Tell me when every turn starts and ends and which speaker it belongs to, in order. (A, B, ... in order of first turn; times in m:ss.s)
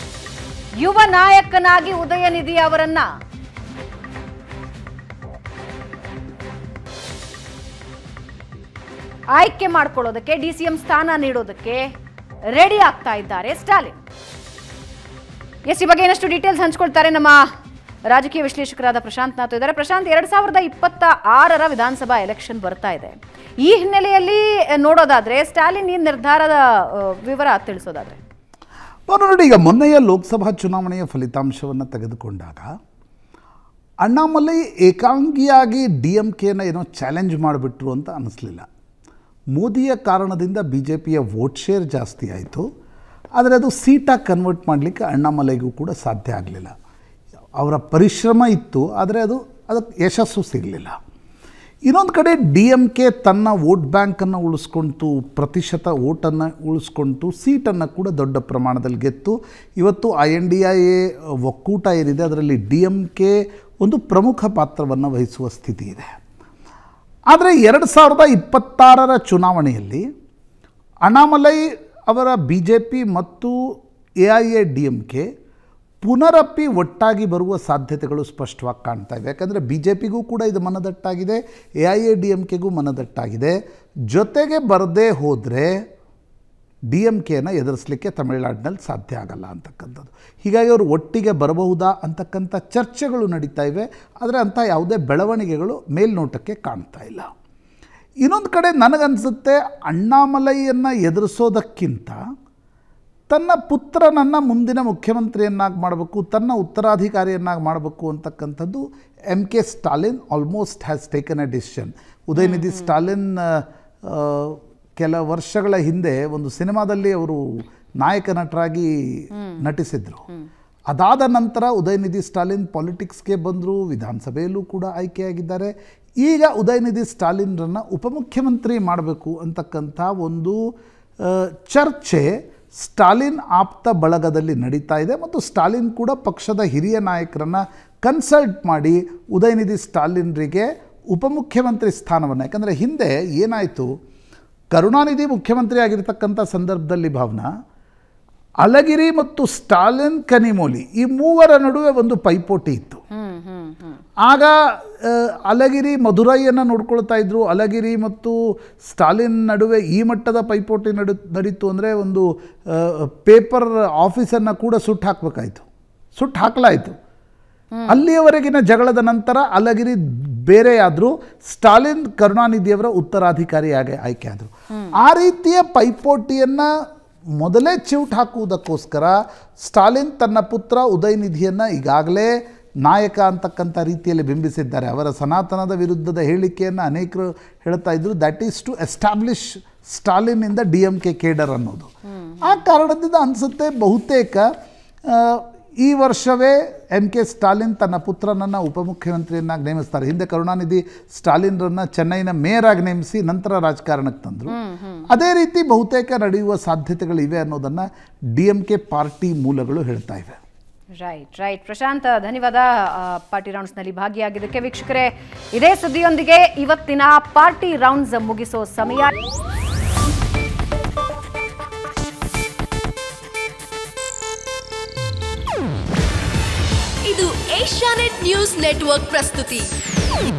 0:00.8-0:03.1 A
0:09.4-0:11.9 A
0:12.5-0:14.0 A
0:15.7-0:17.4 A
0:18.1-0:28.2 A
0:29.1-0:32.7 B
0:34.0-0:38.7 B
0:39.5-0:42.7 B
0:43.4-0:46.7 B
0:47.6-0:51.0 B
0:51.9-1:06.1 B
1:07.3-1:10.1 B
1:11.0-1:13.6 B
1:14.2-1:15.3 B
1:16.0-1:23.6 B
1:24.1-1:25.7 B
1:26.9-1:37.3 B
1:38.2-1:42.2 B
1:43.3-1:57.4 B
1:52.4-1:52.9 A
1:58.0-1:58.9 B
1:59.3-1:59.6 A
1:59.6-2:00.2 B
2:00.9-2:10.6 B
2:11.2-2:23.9 B
2:24.7-2:27.5 B
2:28.6-2:33.0 B
2:33.1-2:34.0 A
2:34.3-2:45.6 B
2:46.2-2:47.0 B
2:47.7-2:48.0 A
2:47.9-2:56.7 B
2:57.4-3:11.9 B
3:12.1-3:12.6 A
3:12.4-3:14.5 B
3:15.1-3:24.6 B
3:24.5-3:25.1 A
3:25.1-3:30.4 B
3:31.0-3:39.1 A
3:47.0-3:49.7 C